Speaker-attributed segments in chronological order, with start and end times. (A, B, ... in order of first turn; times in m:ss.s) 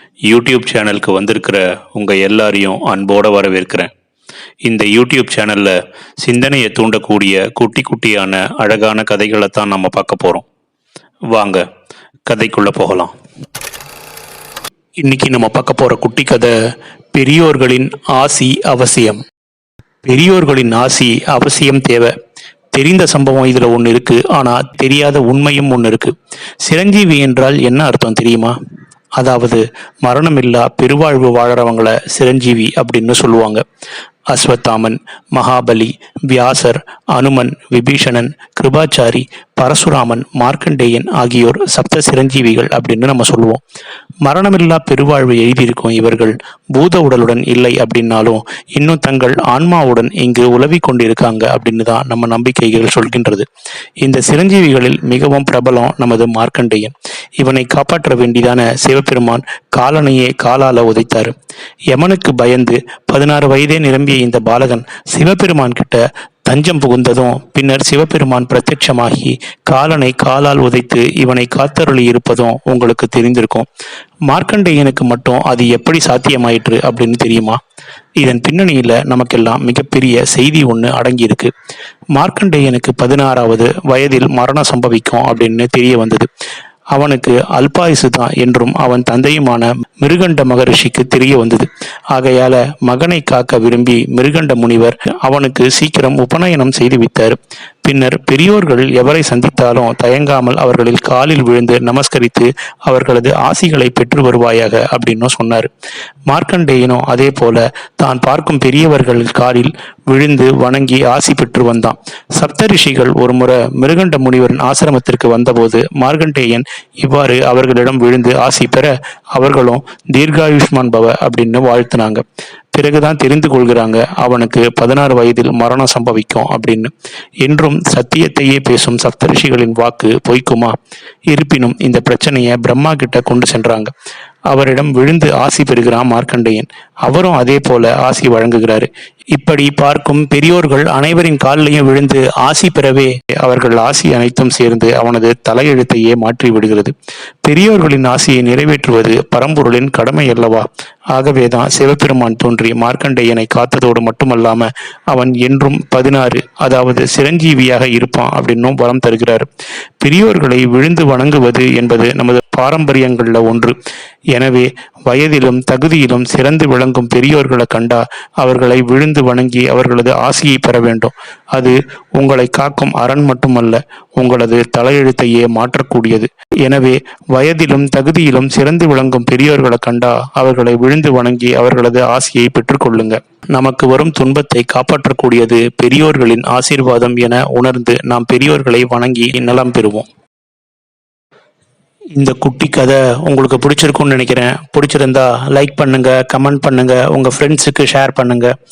0:00.3-0:03.9 A
0:04.7-0:10.4 A
0:11.3-0:11.6 A
0:12.3-0:13.1 A
0:15.0-0:16.6 A
0:17.1-0:19.2 A
0:20.0-0:22.1 A
0:22.7-0:26.1 A
0:26.6-0:28.6 A
0:29.2-0:33.6 A
0:34.3-0:43.6 A
0:44.2-0:53.5 A
0:54.0-1:01.3 A
1:01.9-1:13.7 A
1:14.3-1:17.6 A
1:18.2-1:21.5 A
1:22.1-1:26.3 A
1:26.9-1:45.7 A
1:46.3-2:10.7 A
2:11.3-2:13.9 A
2:14.5-2:26.9 A
2:27.4-2:39.5 A
2:40.0-2:43.8 A
2:44.3-3:10.1 A
3:12.2-3:18.5 A